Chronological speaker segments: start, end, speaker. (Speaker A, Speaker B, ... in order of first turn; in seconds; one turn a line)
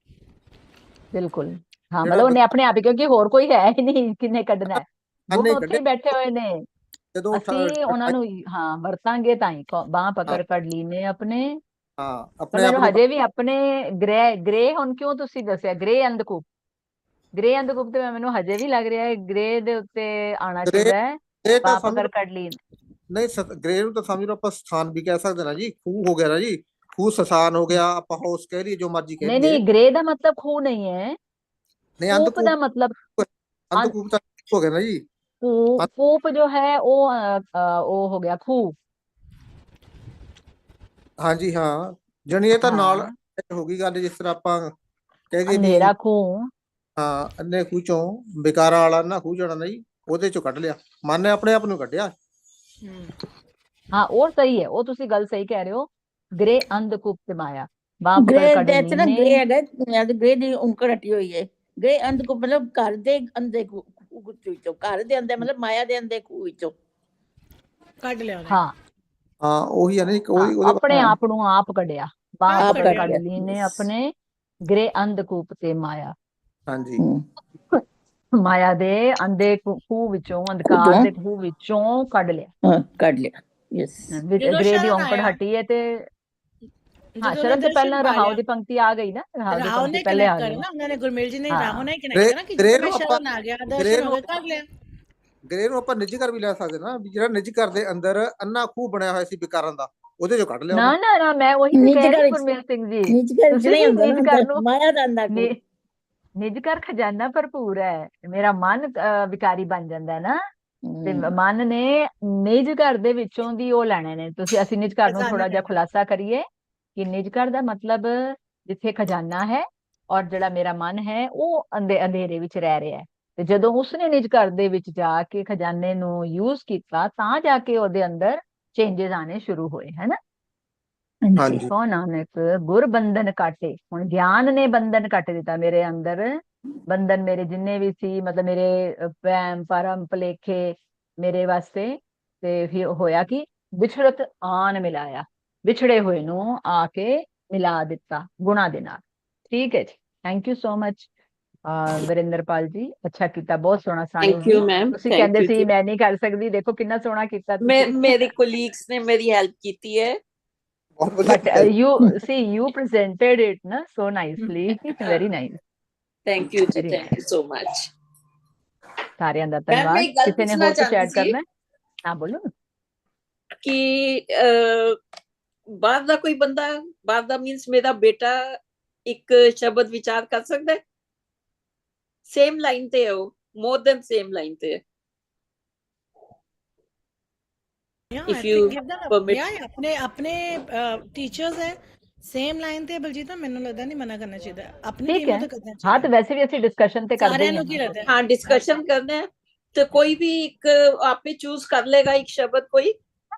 Speaker A: 1.1-6.7
Speaker B: 2.0-2.5
Speaker B: 4.7-5.8
Speaker B: 7.2-8.2
Speaker A: 7.3-11.6
Speaker B: 12.0-13.0
Speaker A: 12.5-16.4
Speaker A: 17.4-22.6
Speaker B: 20.7-22.1
Speaker B: 23.1-29.6
Speaker A: 29.2-31.2
Speaker B: 32.0-32.5
Speaker A: 32.1-33.0
Speaker B: 33.2-35.0
Speaker A: 35.4-38.8
Speaker B: 41.2-44.7
Speaker A: 42.6-43.1
Speaker B: 45.3-45.9
Speaker A: 45.5-46.5
Speaker B: 47.0-52.1
Speaker A: 53.9-59.4
Speaker C: 58.2-66.7
Speaker D: 68.0-68.6
Speaker B: 69.4-70.8
Speaker A: 70.3-74.1
Speaker C: 70.9-71.1
Speaker D: 72.5-73.1
Speaker C: 72.6-73.9
Speaker A: 74.7-76.2
Speaker B: 76.7-77.0
Speaker A: 78.4-82.5
Speaker C: 80.7-81.1
Speaker C: 82.7-84.1
Speaker A: 84.1-86.1
Speaker D: 84.4-85.4
Speaker D: 87.2-88.4
Speaker A: 87.2-90.6
Speaker D: 89.5-94.7
Speaker A: 91.5-91.9
Speaker B: 92.1-93.2
Speaker B: 93.8-94.2
Speaker B: 95.5-101.0
Speaker A: 100.7-104.6
Speaker C: 101.7-102.5
Speaker C: 103.1-105.5
Speaker A: 105.3-105.6
Speaker A: 106.4-110.4
Speaker C: 110.9-111.3
Speaker A: 111.0-130.2
Speaker D: 115.1-115.7
Speaker C: 131.3-131.6
Speaker B: 131.4-131.7
Speaker A: 131.4-151.1
Speaker A: 151.7-158.3
Speaker E: 154.2-155.7
Speaker E: 157.6-160.2
Speaker B: 161.0-161.7
Speaker A: 161.2-165.6
Speaker E: 166.3-167.9
Speaker A: 166.8-167.1
Speaker A: 169.2-171.4
Speaker E: 169.7-171.3
Speaker A: 172.1-172.5
Speaker E: 173.6-175.0
Speaker E: 175.8-178.5
Speaker E: 179.1-180.8
Speaker E: 182.3-184.8
Speaker D: 188.1-196.1
Speaker E: 188.3-189.4
Speaker A: 195.1-197.8
Speaker D: 197.2-198.8
Speaker E: 198.1-202.9